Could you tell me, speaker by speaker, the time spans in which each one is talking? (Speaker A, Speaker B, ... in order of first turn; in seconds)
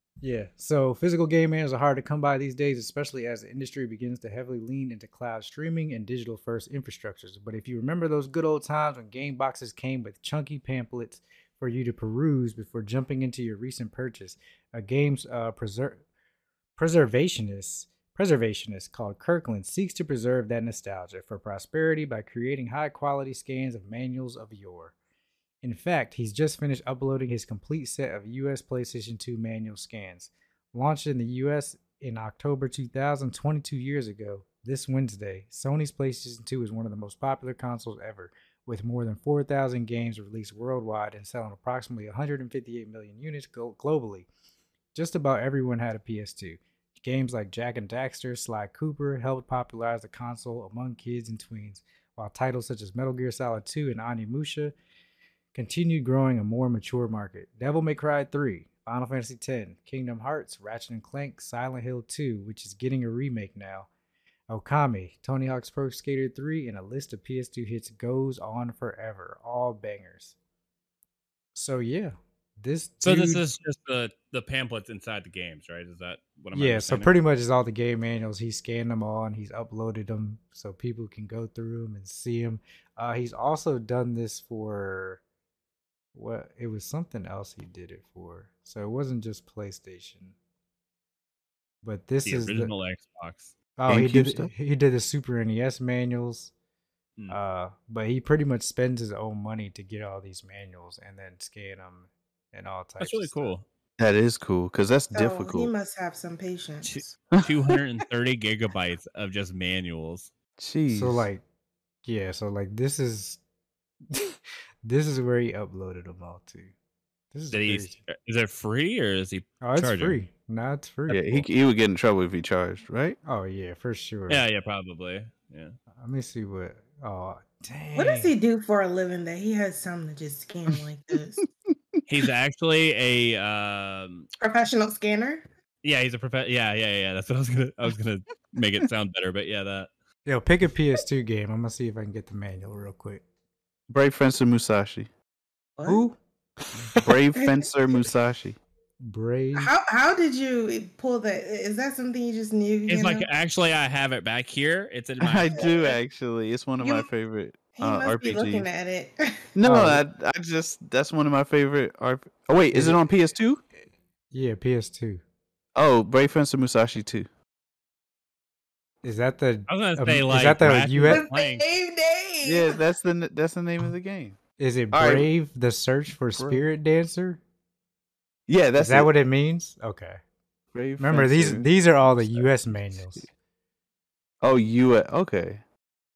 Speaker A: 0.2-16.0, 16.8-24.9, 25.6-44.3, 44.9-54.7, 55.5-63.9, 64.5-70.3, 71.5-73.4, 76.5-85.2, 86.1-90.3, 91.8-92.7, 93.8-96.5, 97.3-103.5, 110.9-111.4, 112.0-113.4, 114.1-116.7, 117.3-118.0, 119.6-121.5, 123.2-124.4, 126.0-128.3, 140.3-143.2, 145.9-146.2, 146.8-147.1, 149.0-149.7, 159.6-160.0, 162.7-163.0, 164.3-165.2, 169.0-171.2, 174.6-177.4, 178.8-180.2, 181.0-183.3
Speaker B: 73.0-77.1, 92.2-93.5, 103.0-103.7, 106.8-110.3, 117.5-120.2, 124.3-125.8, 132.1-134.3, 135.8-139.9, 152.9-155.6, 169.7-171.6
Speaker C: 93.9-94.5, 104.0-105.7, 107.4-107.7, 110.6-111.3, 121.1-123.2, 131.7-132.0, 143.9-145.1, 147.0-148.6, 155.2-158.7, 159.6-163.6, 165.8-167.3, 172.4-174.4, 174.9-175.3, 176.4-176.7, 178.5-179.1, 180.7-183.3, 184.4-185.6
Speaker D: 105.1-107.2, 128.0-131.4, 134.4-135.4, 145.8-146.1, 147.4-147.7, 149.6-153.3, 155.5-156.0, 156.8-157.1, 157.8-159.4, 171.1-172.8